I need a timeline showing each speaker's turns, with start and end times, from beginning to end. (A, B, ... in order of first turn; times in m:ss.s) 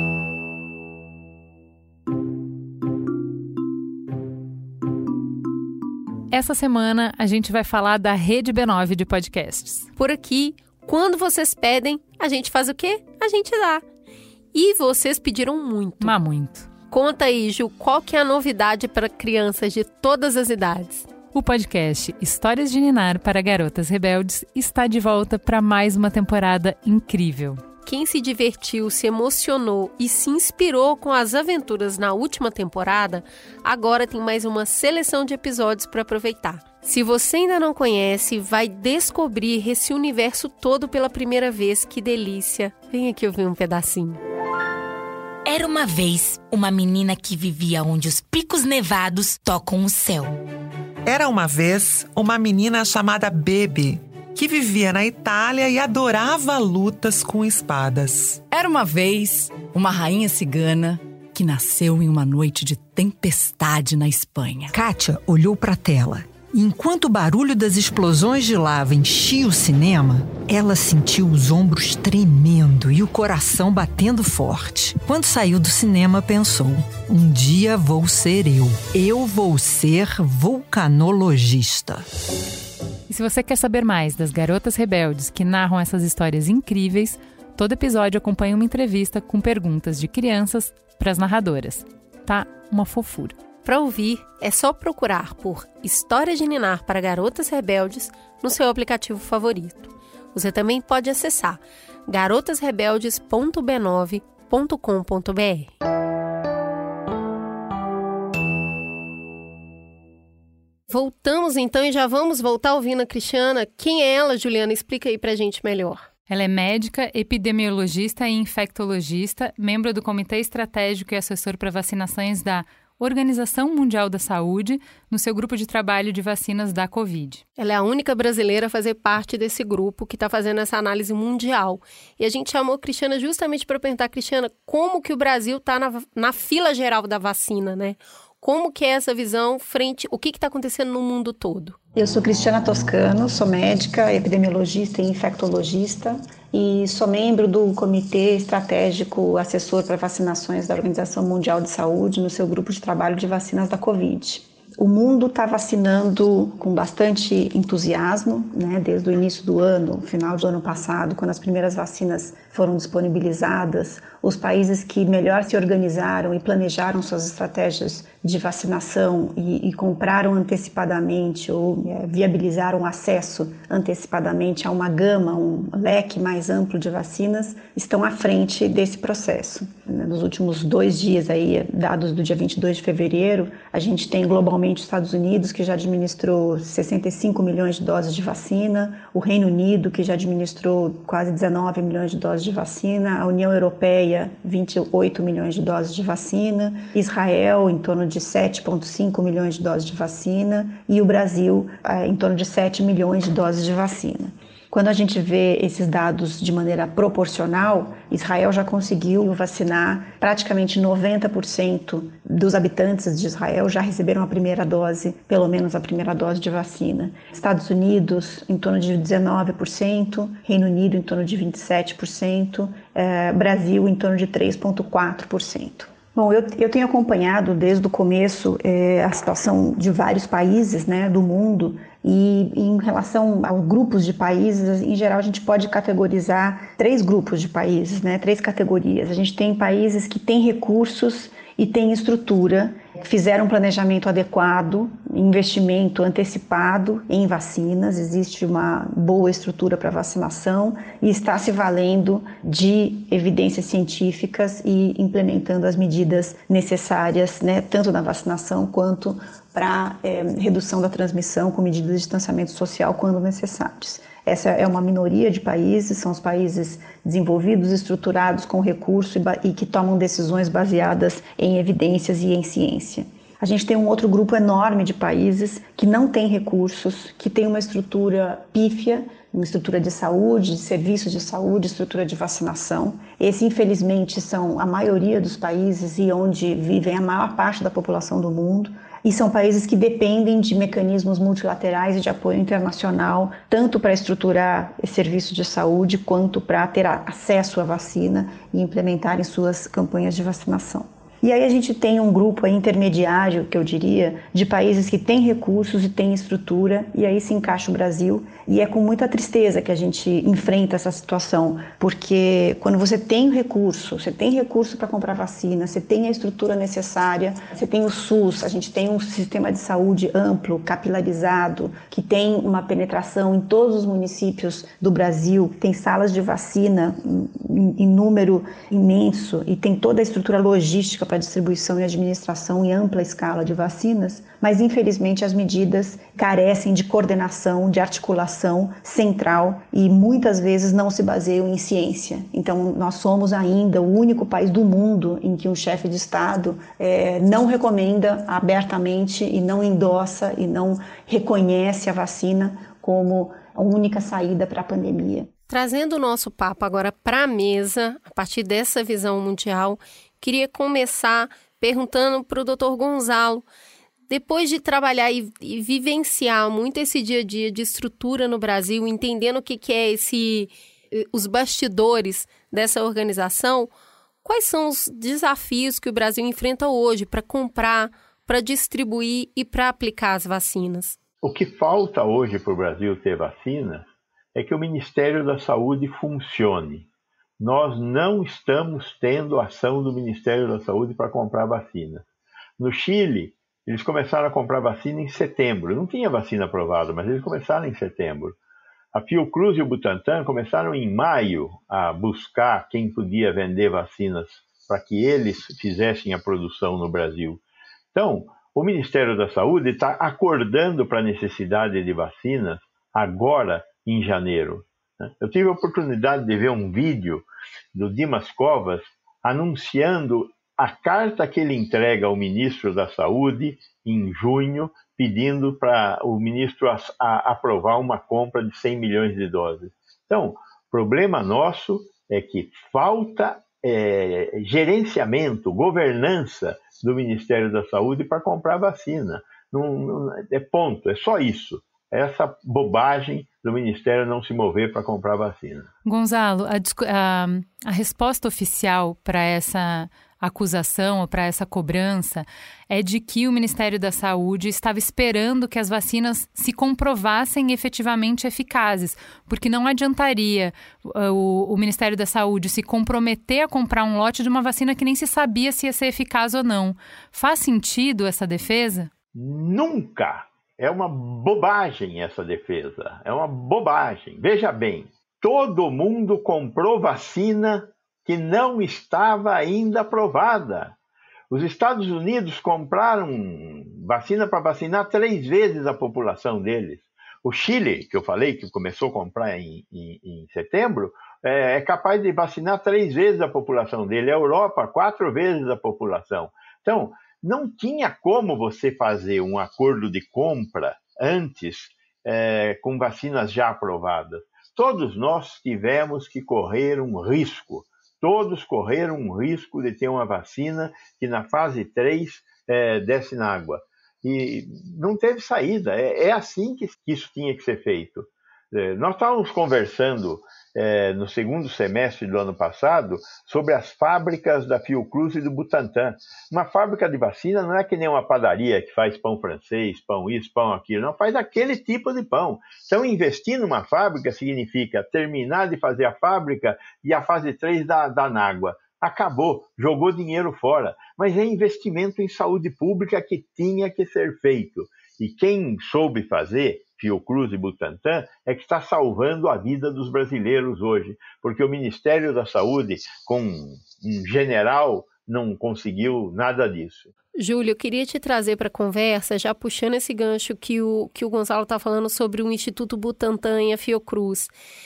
0:06.3-0:09.9 A
0:10.0-0:13.8 B
0:14.5-0:16.2 B
0:16.0-0:16.7 A
0:16.9-0:21.1 B
0:21.3-0:27.6 A
0:27.8-0:44.2 B
0:45.4-0:50.4 C
0:51.0-0:58.4 D
0:58.5-1:04.8 E
1:04.7-1:22.1 F
1:23.1-1:33.4 A
1:33.6-1:45.7 B
1:50.9-1:56.1 B
1:56.3-2:07.4 A
2:07.6-2:21.8 B
2:22.0-5:55.3 G
5:55.5-6:03.4 B
6:04.1-6:13.7 B
6:14.2-6:21.0 B
6:21.2-6:26.9 H
6:27.4-6:32.0 H
6:32.6-6:38.4 H
6:38.9-6:47.4 H
6:47.9-7:25.7 H
7:25.8-7:48.9 A
7:49.1-8:00.8 H
8:01.3-9:16.9 H
9:17.2-9:24.3 B